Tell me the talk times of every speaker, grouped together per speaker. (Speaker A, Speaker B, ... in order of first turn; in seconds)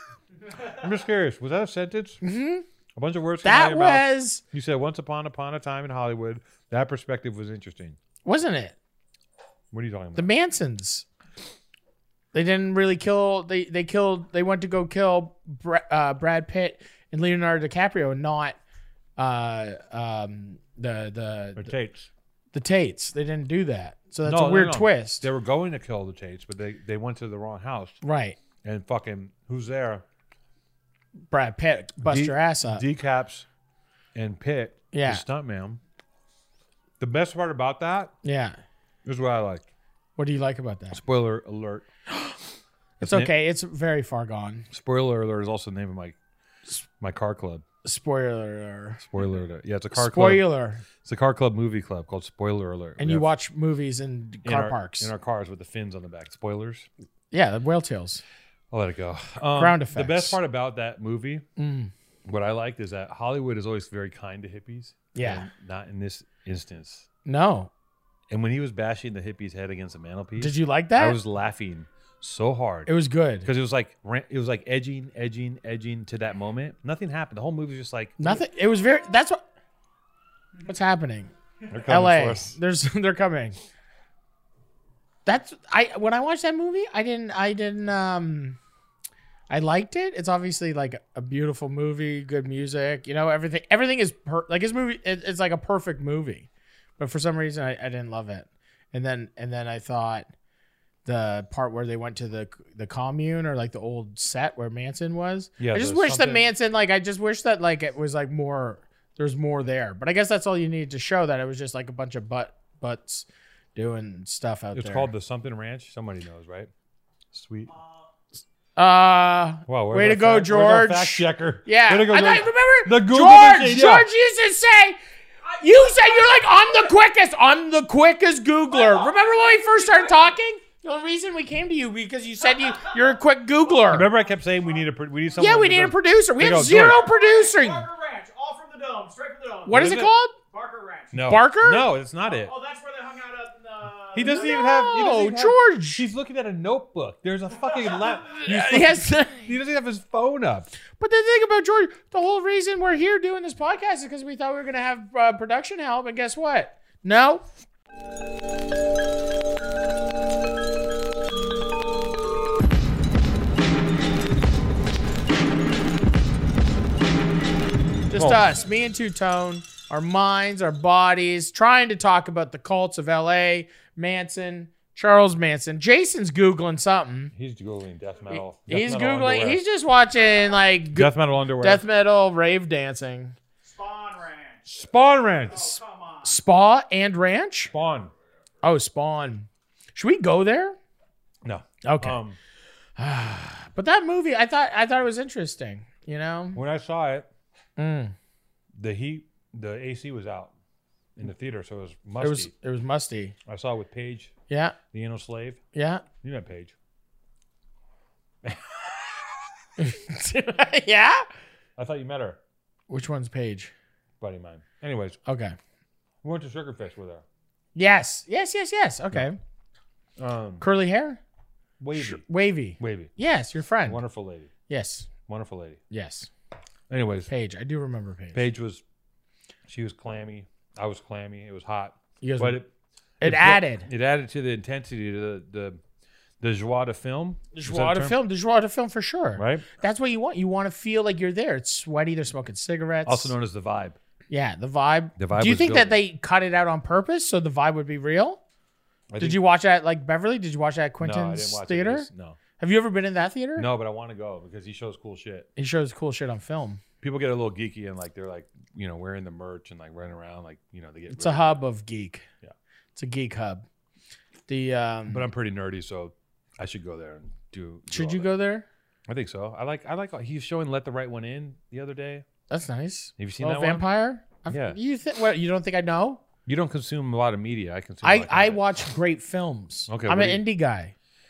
Speaker A: 0.6-2.2, 3.0-8.0, 9.7-10.3, 21.6-22.1, 24.2-28.0, 28.6-30.0, 32.0-33.4, 34.1-35.8, 37.0-38.1, 39.0-39.7, 40.9-41.9, 43.0-43.3, 44.7-46.2, 47.0-47.6, 49.0-50.4, 51.0-53.3, 54.4-56.9, 58.7-61.4, 62.2-67.1, 68.3-72.9, 73.4-78.4, 81.7-82.6, 105.6-106.5, 114.7-116.7, 117.3-117.7, 119.7-124.0, 133.9-137.0, 139.7-140.1, 141.1-142.5, 144.1-150.7, 168.1-168.4, 177.3-179.6, 180.9-181.8, 184.7-185.8, 187.7-188.1, 191.4-192.4, 196.5-197.3, 198.8-200.5, 201.2-202.5, 203.4-204.3, 204.9-205.6, 206.2-206.7, 208.4-209.2, 211.8-212.4, 214.2-215.2, 216.2-217.2, 220.2-220.7, 221.8-222.2, 222.8-223.1, 223.8-224.5, 225.3-225.8, 226.9-227.3, 228.3-228.8, 229.7-232.7, 233.2-235.8, 236.4-238.2, 239.3-239.7, 243.0-244.0, 245.2-246.0, 249.1-249.4, 251.0-252.4, 253.5-255.5, 257.0-261.6, 265.1-268.3, 269.1-272.2, 273.2-273.9, 274.5-274.8, 276.4-278.6, 279.9-280.4
Speaker B: 2.2-2.6, 3.4-4.4, 8.2-8.7, 10.2-11.0, 12.3-18.6, 19.2-21.7, 22.5-25.2, 28.0-28.4, 31.3-32.8, 34.9-35.2, 38.2-38.6, 40.2-41.0, 43.0-44.7, 47.8-49.0, 49.9-50.8, 53.0-55.1, 57.3-58.2, 59.5-60.4, 61.6-61.9, 65.1-65.5, 67.2-67.7, 70.4-71.2, 72.9-73.5, 78.2-79.4, 80.7-81.3, 81.8-83.6, 85.2-88.6, 89.5-100.3, 101.0-115.1, 118.8-125.0, 125.6-134.1, 135.4-137.9, 139.7-140.3, 141.3-141.8, 144.3-146.0, 148.4-149.5, 151.0-157.4, 168.1-177.3, 178.3-183.3, 186.2-187.7, 188.6-190.8, 191.8-192.2, 193.0-196.6, 197.8-198.1, 202.2-203.3, 204.5-204.8, 205.7-206.0, 209.8-211.2, 212.9-213.7, 215.2-215.6, 217.7-219.4, 220.6-221.2, 221.9-224.0, 224.7-225.1, 225.9-226.3, 227.3-228.4, 232.2-232.6, 233.2-233.9, 237.5-243.3, 244.3-248.4, 249.2-253.7, 255.6-256.8, 261.1-262.2, 262.9-263.6, 264.5-265.2, 267.9-268.6, 272.5-276.2, 278.0-280.9
Speaker C: 125.4-126.9, 128.7-130.3, 132.5-133.2, 133.7-135.3, 136.7-139.9, 140.5-141.3, 142.2-144.8, 147.6-148.4, 183.6-184.7, 185.5-186.4